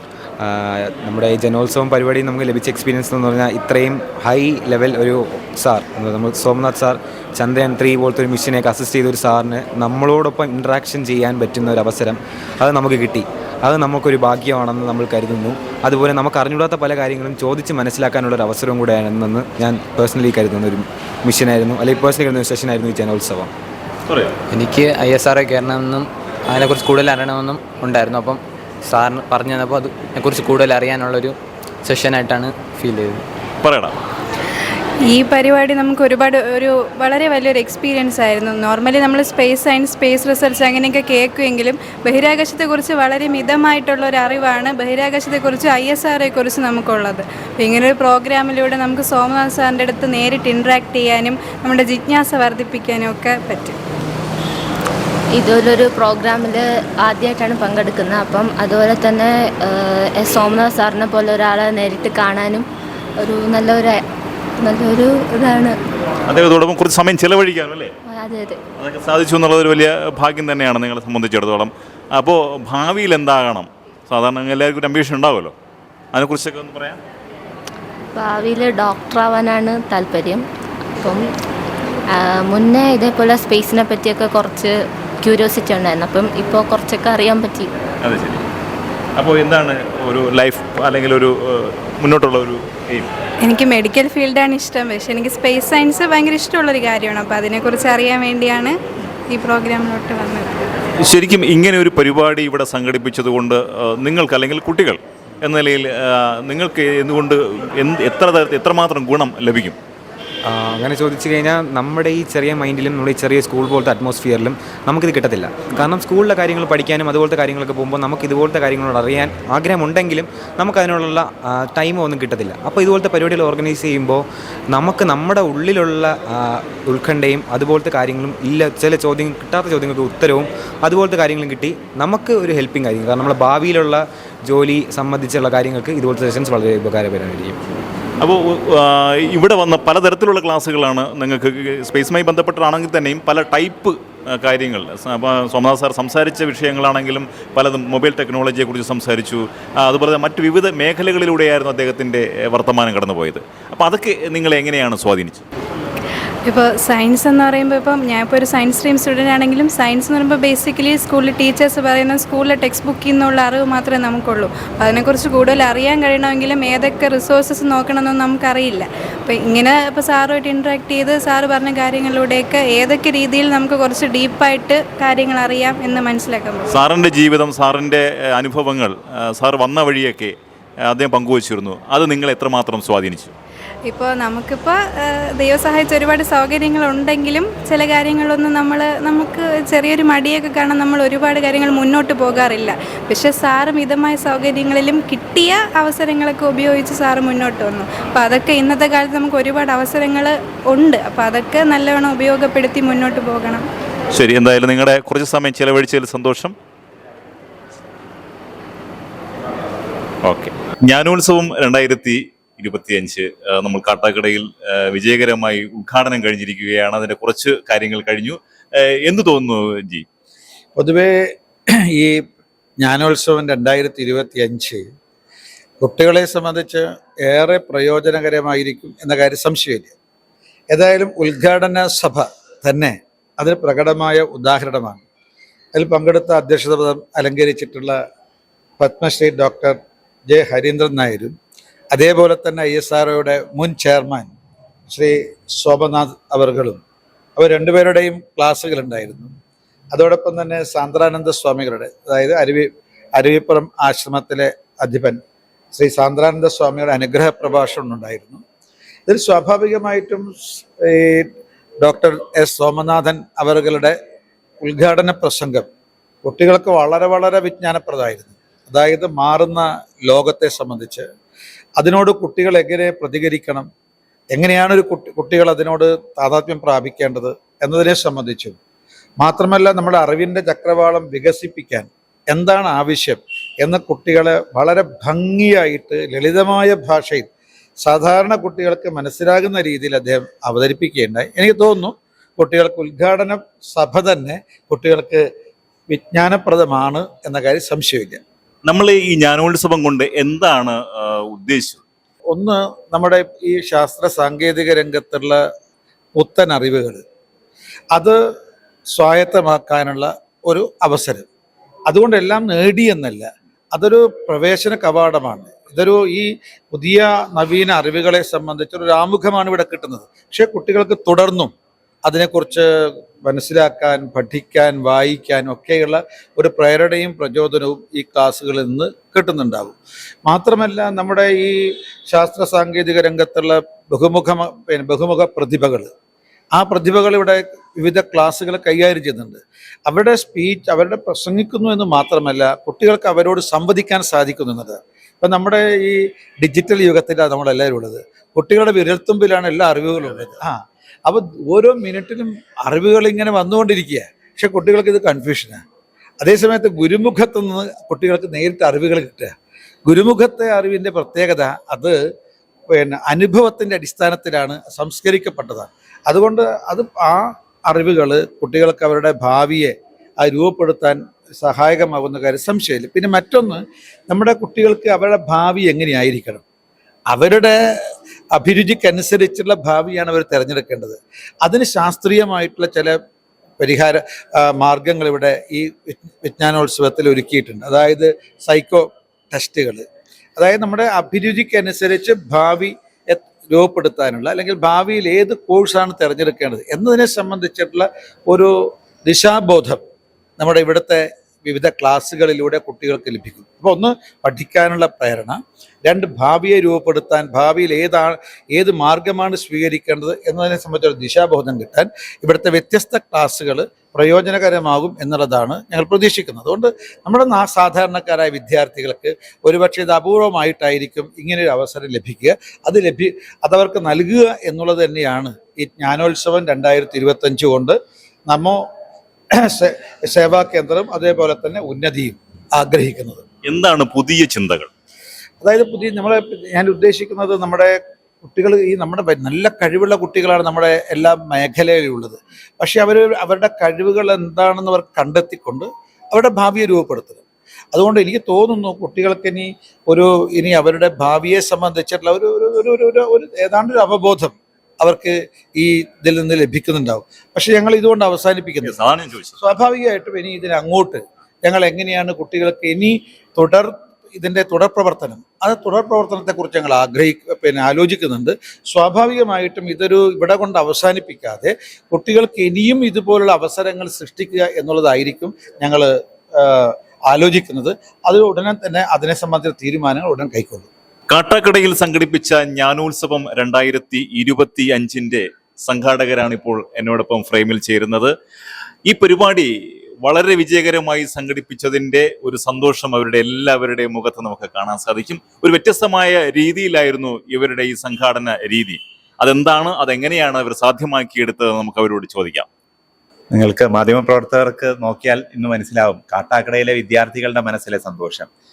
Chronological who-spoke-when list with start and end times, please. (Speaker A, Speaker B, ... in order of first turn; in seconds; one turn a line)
Speaker A: 0.4-23.5
Speaker B: 24.5-33.2
Speaker C: 33.6-33.9
Speaker D: 35.1-53.8
Speaker E: 55.3-62.6
Speaker E: 63.2-64.0
Speaker E: 64.6-65.8
Speaker C: 66.3-67.9
Speaker E: 68.1-68.6
Speaker C: 68.8-75.5
Speaker C: 76.1-77.0
Speaker E: 78.1-80.5
Speaker E: 81.0-81.2
Speaker E: 82.1-87.7
Speaker C: 88.0-88.4
Speaker C: 89.2-93.1
Speaker D: 93.4-98.8
Speaker D: 99.3-100.6
Speaker C: 101.0-109.8
Speaker A: 110.5-137.6
Speaker C: 138.2-155.4
Speaker D: 156.4-176.7
Speaker C: 176.7-180.3
Speaker C: 180.9-183.3
Speaker D: 183.9-203.7
Speaker C: 204.1-206.5
Speaker C: 210.2-218.4
Speaker C: 219.0-220.0
Speaker F: 220.8-221.1
Speaker F: 222.8-224.9
Speaker F: 225.8-229.9
Speaker F: 230.7-235.0
Speaker F: 235.8-238.0
Speaker F: 238.8-241.3
Speaker F: 241.9-244.3
Speaker F: 244.9-246.8
Speaker F: 247.4-249.3
Speaker F: 249.9-255.2
Speaker F: 255.7-258.4
Speaker F: 259.1-261.3
Speaker F: 261.8-264.0
Speaker F: 264.6-265.7
Speaker F: 266.2-271.1
Speaker F: 271.8-273.7
Speaker F: 274.3-278.6
Speaker F: 279.2-287.3
Speaker F: 287.9-295.2
Speaker F: 295.9-298.2
Speaker C: 298.6-301.8
Speaker F: 302.3-305.4
Speaker F: 306.1-307.0
Speaker F: 308.9-311.3
Speaker F: 311.9-321.5
Speaker F: 322.0-322.7
Speaker F: 323.2-331.6
Speaker F: 332.1-335.9
Speaker F: 336.5-350.5
Speaker F: 351.1-355.6
Speaker F: 356.2-359.3
Speaker F: 359.9-361.9
Speaker F: 362.7-376.4
Speaker F: 377.1-377.5
Speaker F: 378.3-383.0
Speaker F: 383.6-389.9
Speaker F: 390.4-398.5
Speaker F: 399.1-399.8
Speaker F: 400.4-427.8
Speaker F: 428.3-428.6
Speaker F: 429.5-433.2
Speaker C: 433.4-434.7
Speaker F: 435.4-447.2
Speaker F: 447.7-458.8
Speaker C: 458.6-459.4
Speaker F: 459.4-480.7
Speaker C: 481.1-488.1
Speaker C: 488.9-489.5
Speaker C: 490.0-502.5
Speaker G: 503.3-508.3